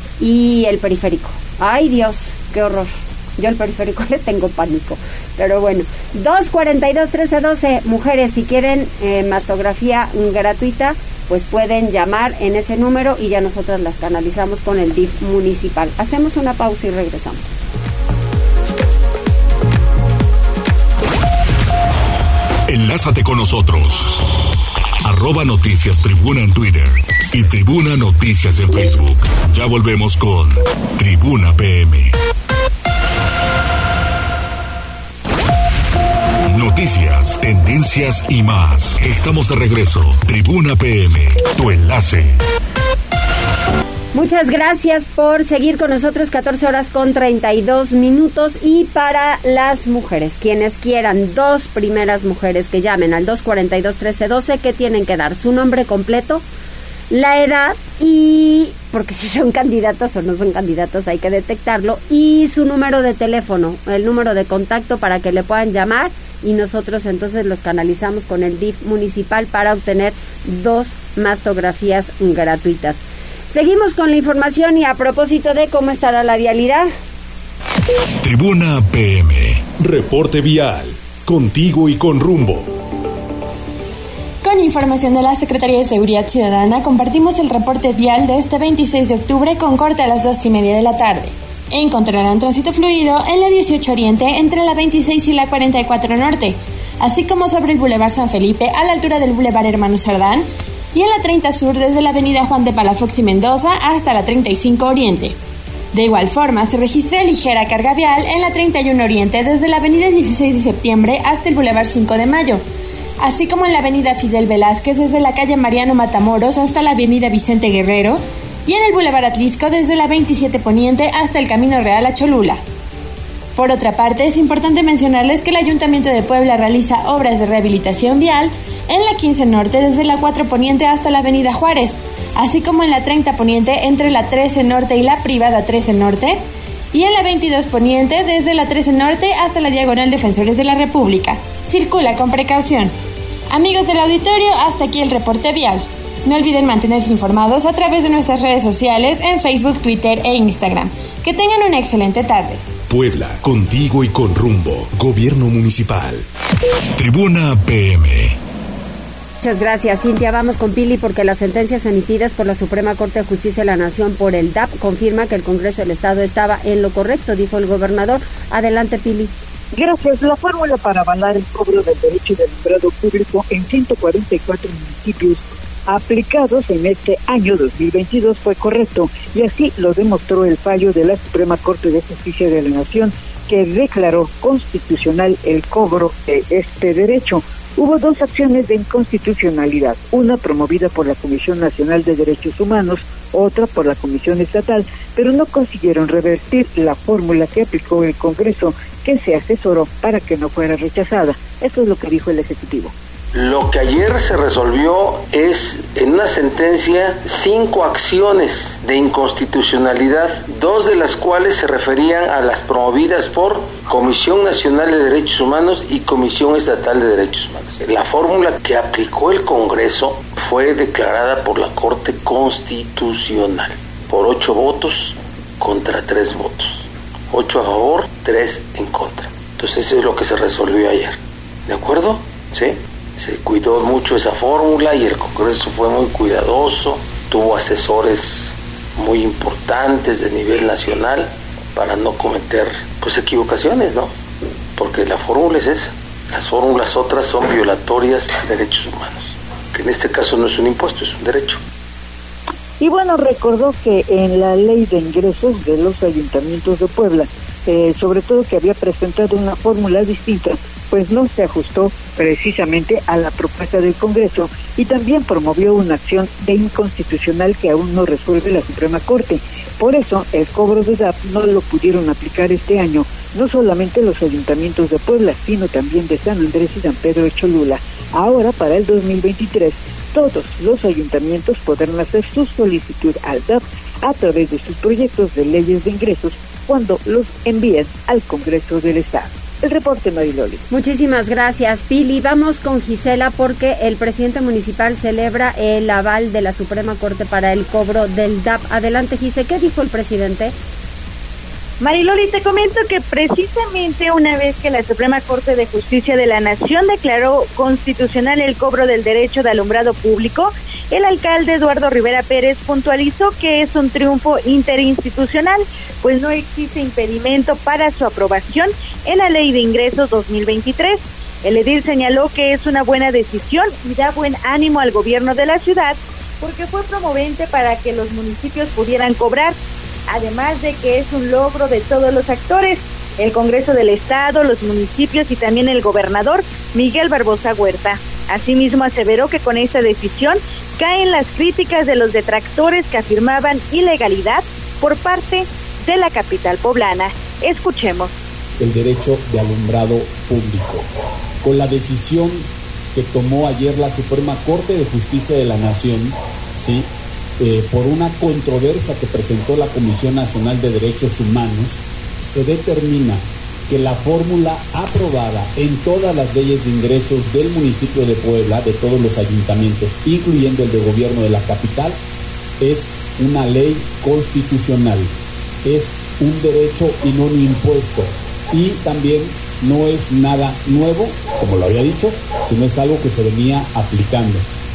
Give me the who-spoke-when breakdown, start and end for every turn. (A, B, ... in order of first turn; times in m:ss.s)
0:00.2-0:17.5 A
0:22.7-0:24.2 B
0:25.0-0:32.1 B
0:36.5-0:42.3 B
0:44.1-0:56.4 A
0:57.1-1:16.9 A
1:18.2-1:22.6 B
1:24.4-1:45.4 C
1:45.9-1:52.6 C
1:53.2-2:02.6 C
2:03.6-2:16.4 C
2:16.9-2:22.9 C
2:23.5-2:32.6 C
2:32.9-2:36.2 D
2:37.0-2:38.4 B
2:39.4-2:49.3 A
2:49.7-3:22.9 E
3:23.3-4:04.1 F
4:04.8-4:11.6 F
4:12.8-4:50.6 E
4:50.7-5:00.5 A
5:01.8-5:29.6 G
5:30.1-5:48.1 G
5:48.6-5:50.9 H
5:51.4-5:56.9 H
5:57.4-6:12.0 H
6:12.6-6:15.1 H
6:15.6-6:24.5 H